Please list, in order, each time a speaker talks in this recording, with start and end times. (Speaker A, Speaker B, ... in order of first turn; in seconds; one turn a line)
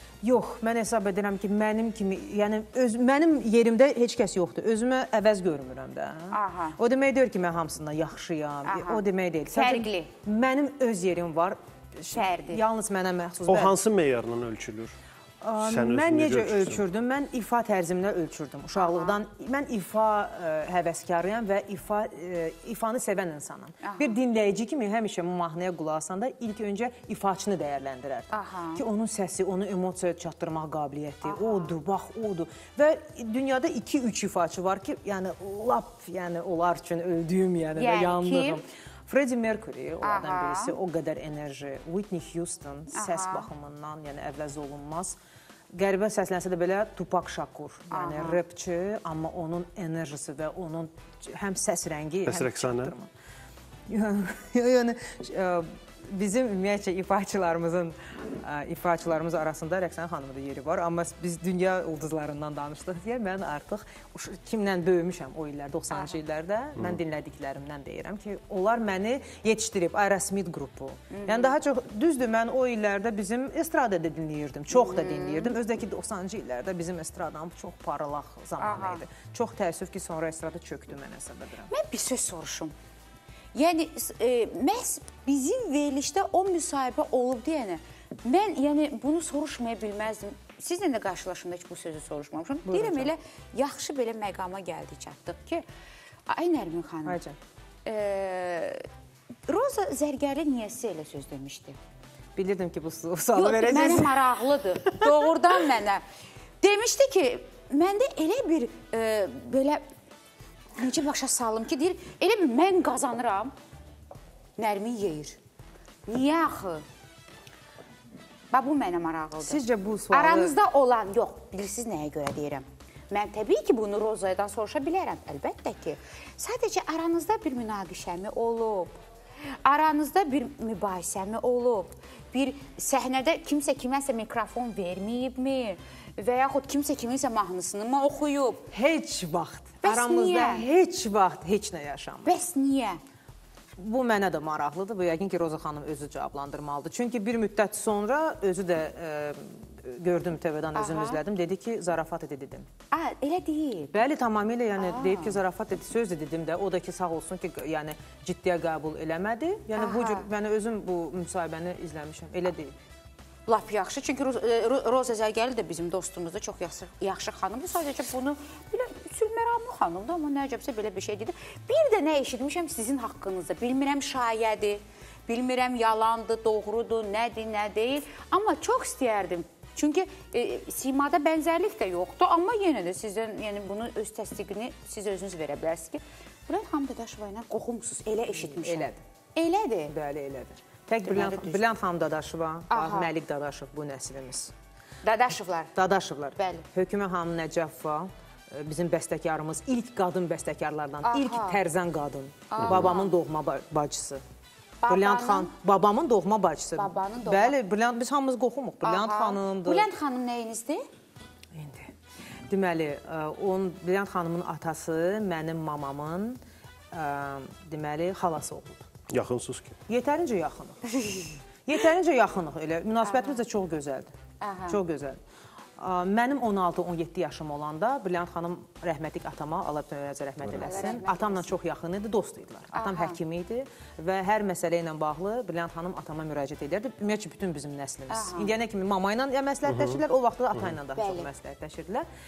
Speaker A: 0.2-13.7
Speaker B: 6.3-6.8
Speaker B: 8.7-10.1
Speaker B: 12.1-12.6
Speaker C: 13.5-14.9
Speaker A: 15.4-45.2
Speaker C: 15.6-16.8
Speaker B: 18.8-19.2
Speaker B: 23.8-24.2
Speaker B: 28.3-28.9
Speaker B: 31.2-31.6
Speaker B: 37.7-38.6
Speaker B: 40.0-40.8
Speaker B: 42.9-43.5
Speaker A: 45.7-53.1
Speaker B: 47.9-48.4
Speaker C: 52.2-52.9
Speaker A: 53.9-81.7
Speaker B: 71.1-71.5
Speaker B: 74.7-75.5
Speaker B: 78.6-79.0
Speaker B: 81.7-82.7
Speaker B: 83.5-95.6
Speaker A: 92.7-93.1
Speaker B: 96.3-97.2
Speaker A: 97.0-97.4
Speaker B: 97.8-98.8
Speaker B: 99.5-101.8
Speaker A: 102.3-104.3
Speaker B: 103.3-106.0
Speaker A: 104.8-105.3
Speaker B: 106.6-109.8
Speaker B: 110.8-113.5
Speaker B: 114.6-115.4
Speaker B: 116.0-116.8
Speaker B: 118.5-119.6
Speaker A: 119.4-120.5
Speaker B: 120.1-128.9
Speaker B: 129.6-138.7
Speaker A: 138.7-142.3
Speaker B: 139.8-140.7
Speaker B: 142.2-143.0
Speaker A: 143.8-152.7
Speaker B: 150.7-151.2
Speaker B: 152.9-153.9
Speaker A: 153.9-162.7
Speaker B: 154.8-155.4
Speaker B: 159.8-160.3
Speaker B: 163.5-189.9
Speaker A: 188.4-189.0
Speaker A: 189.9-194.5
Speaker B: 191.1-191.8
Speaker B: 192.7-193.1
Speaker B: 195.0-195.7
Speaker A: 195.8-204.2
Speaker B: 196.4-196.7
Speaker B: 201.0-201.6
Speaker B: 202.5-203.2
Speaker B: 204.8-205.5
Speaker A: 204.9-209.9
Speaker B: 206.8-207.6
Speaker B: 208.8-210.8
Speaker A: 211.5-211.9
Speaker A: 212.5-216.4
Speaker A: 216.9-218.8
Speaker C: 219.1-219.8
Speaker A: 219.9-224.1
Speaker B: 223.0-223.4
Speaker B: 224.4-224.8
Speaker A: 224.7-225.2
Speaker A: 225.8-242.1
Speaker C: 230.4-230.8
Speaker B: 230.6-231.5
Speaker B: 232.7-233.2
Speaker B: 238.1-238.5
Speaker C: 239.7-240.0
Speaker B: 240.9-241.3